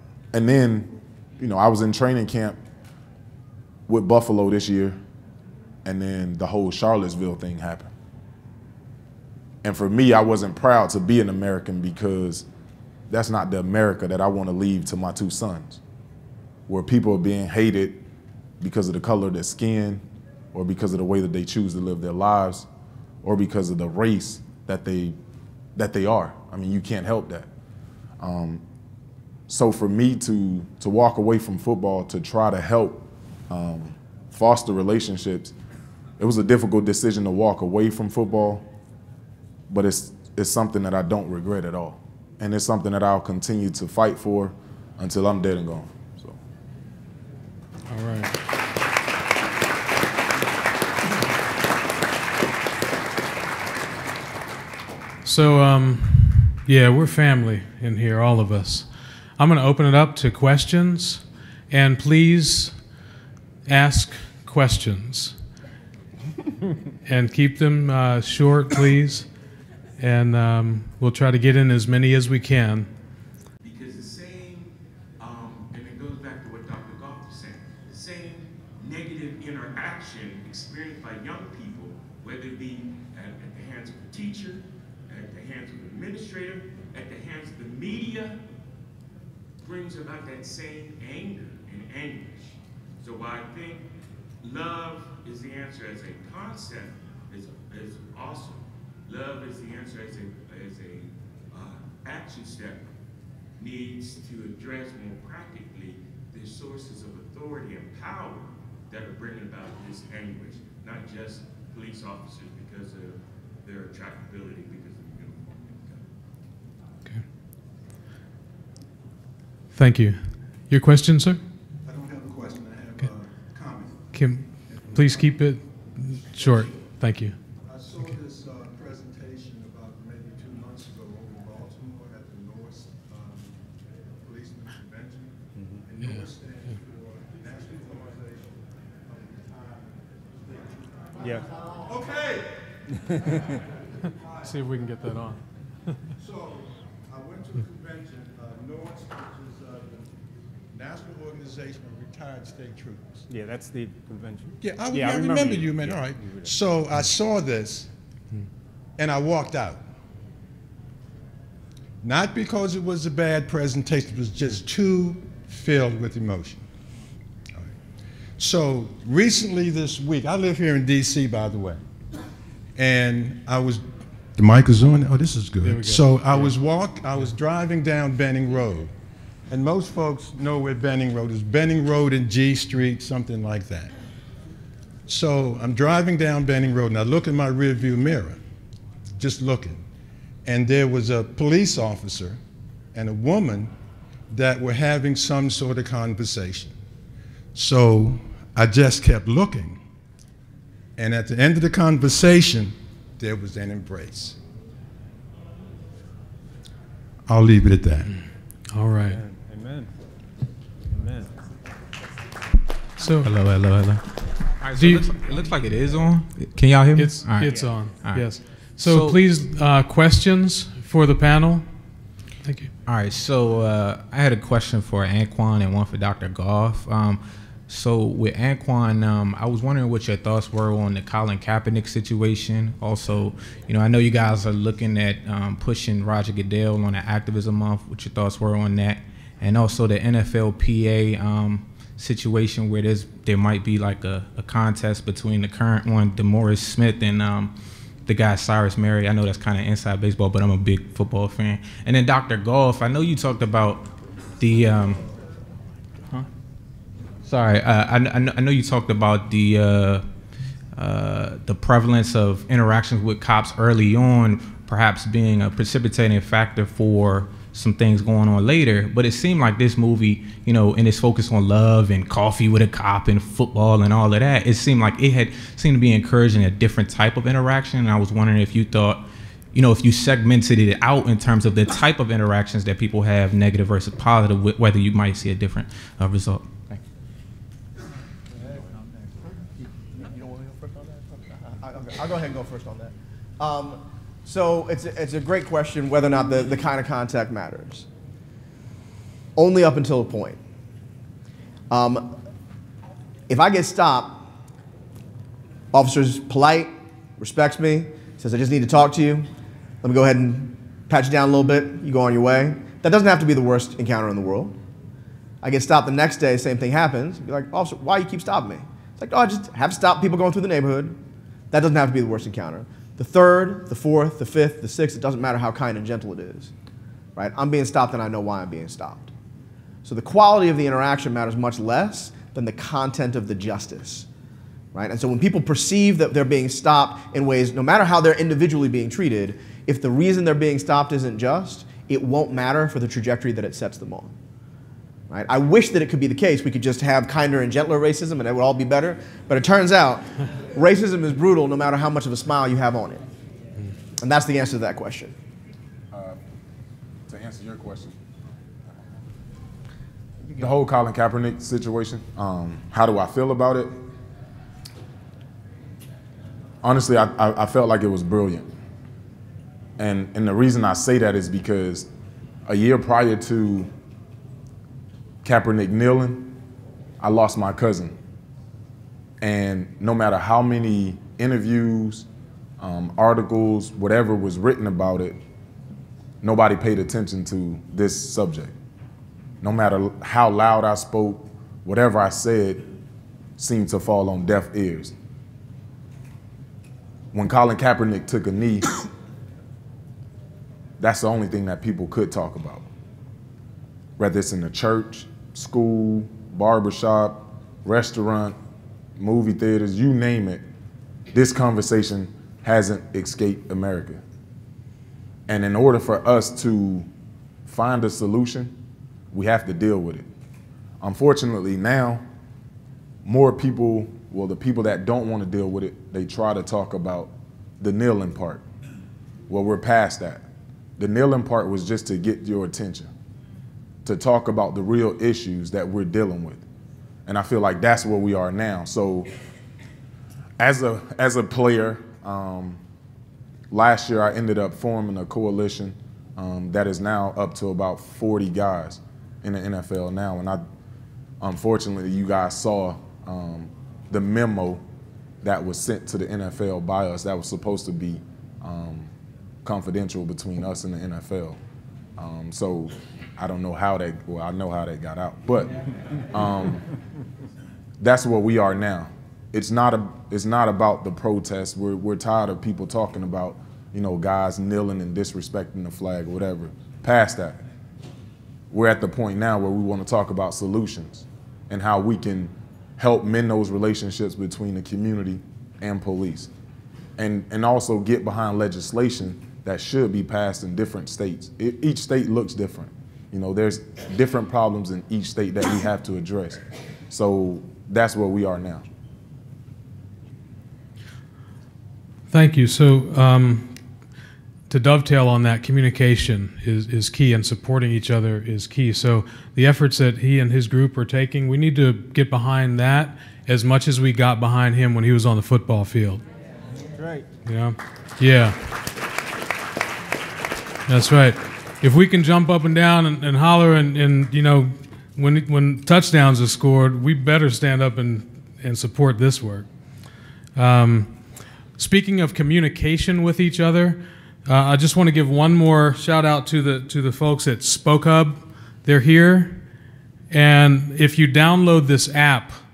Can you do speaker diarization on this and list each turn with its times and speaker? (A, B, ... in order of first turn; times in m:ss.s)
0:00.3-0:02.6 A
0:03.9-0:05.0 A
0:05.8-0:07.9 A
0:09.6-0:12.4 A
0:13.1-0:15.8 A
0:16.7-0:18.0 A
0:18.6-0:22.7 A
0:23.2-0:25.2 A
0:25.8-0:27.5 A
0:28.2-0:28.6 A
0:29.5-0:35.5 A
0:36.2-0:38.7 A
0:39.7-0:46.4 A
0:47.9-0:48.3 B
0:55.2-0:58.8 B
0:59.4-1:02.8 B
1:03.7-1:05.3 B
1:07.0-1:09.3 B
1:10.0-1:12.9 B
1:13.6-1:28.4 C
1:29.6-1:33.9 C
1:34.4-1:42.9 C
1:43.6-1:56.0 C
1:59.7-2:01.4 B
2:01.8-2:04.0 D
2:04.1-2:07.3 B
2:04.7-2:05.2 D
2:07.6-2:22.5 D
2:24.4-2:25.4 B
2:26.2-2:30.1 D
2:30.7-2:33.2 D
2:33.3-2:36.6 E
2:34.6-2:37.9 D
2:39.0-2:39.8 D
2:42.0-2:46.6 D
2:48.4-2:51.8 D
2:52.8-2:53.8 D
2:54.4-2:58.9 D
2:55.6-2:56.6 B
2:59.5-3:03.9 D
3:05.1-3:08.4 D
3:09.2-3:09.8 D
3:10.4-3:12.4 D
3:12.9-3:13.7 D
3:14.3-3:16.7 D
3:17.5-3:19.8 D
3:21.0-3:24.4 D
3:27.3-3:28.1 D
3:28.7-3:29.2 B
3:29.1-3:29.9 E
3:31.0-3:31.2 E
3:33.0-3:33.3 B
3:33.2-3:34.0 F
3:34.6-3:39.2 F
3:34.8-3:35.1 B
3:37.0-3:41.7 B
3:42.4-3:42.7 B
3:42.9-4:07.5 F
4:08.1-4:15.0 F
4:17.2-4:20.0 F
4:20.7-4:46.8 F
4:48.4-4:49.4 D
4:49.9-4:51.3 D
4:51.6-4:57.8 G
4:59.4-5:00.4 G
5:01.7-5:02.2 G
5:03.3-5:04.2 G
5:05.7-5:09.3 G
5:09.8-5:14.5 G
5:15.4-5:21.0 G
5:21.5-5:26.5 G
5:27.2-5:29.1 G
5:29.8-5:34.0 G
5:34.7-5:44.1 G
5:45.1-5:50.0 G
5:50.6-5:53.0 G
5:54.0-5:55.1 G
5:55.9-5:56.2 A
5:57.1-5:58.0 A
6:00.3-6:03.7 A
6:06.6-6:08.4 A
6:09.8-6:11.9 A
6:12.4-6:13.7 A
6:15.2-6:16.3 A
6:17.0-6:17.9 A
6:19.2-6:22.0 A
6:22.6-6:25.2 A
6:26.2-6:28.5 A
6:29.4-6:32.7 A
6:33.4-6:34.9 A
6:37.1-6:38.6 A
6:40.8-6:42.6 A
6:44.0-6:48.4 A
6:49.0-6:50.4 A
6:51.1-6:54.0 A
6:55.3-6:56.9 A
6:57.4-6:58.5 A
6:59.1-7:00.0 A
7:00.8-7:02.0 A
7:03.0-7:08.4 A
7:09.3-7:10.2 A
7:10.8-7:12.9 A
7:13.8-7:16.4 A
7:17.0-7:19.1 A
7:20.4-7:22.6 A
7:23.5-7:30.4 A
7:31.2-7:34.6 A
7:35.2-7:38.9 A
7:39.4-7:41.4 A
7:42.0-7:45.5 A
7:46.1-7:46.6 A
7:47.8-7:57.4 A
7:58.5-8:06.3 A
8:07.0-8:18.6 A
8:22.1-8:23.5 B
8:24.5-8:36.0 B
8:36.8-8:37.0 E
8:37.2-8:38.3 B
8:40.7-8:49.5 B
8:50.4-8:50.9 B
8:51.6-8:59.4 B
9:00.1-9:02.4 B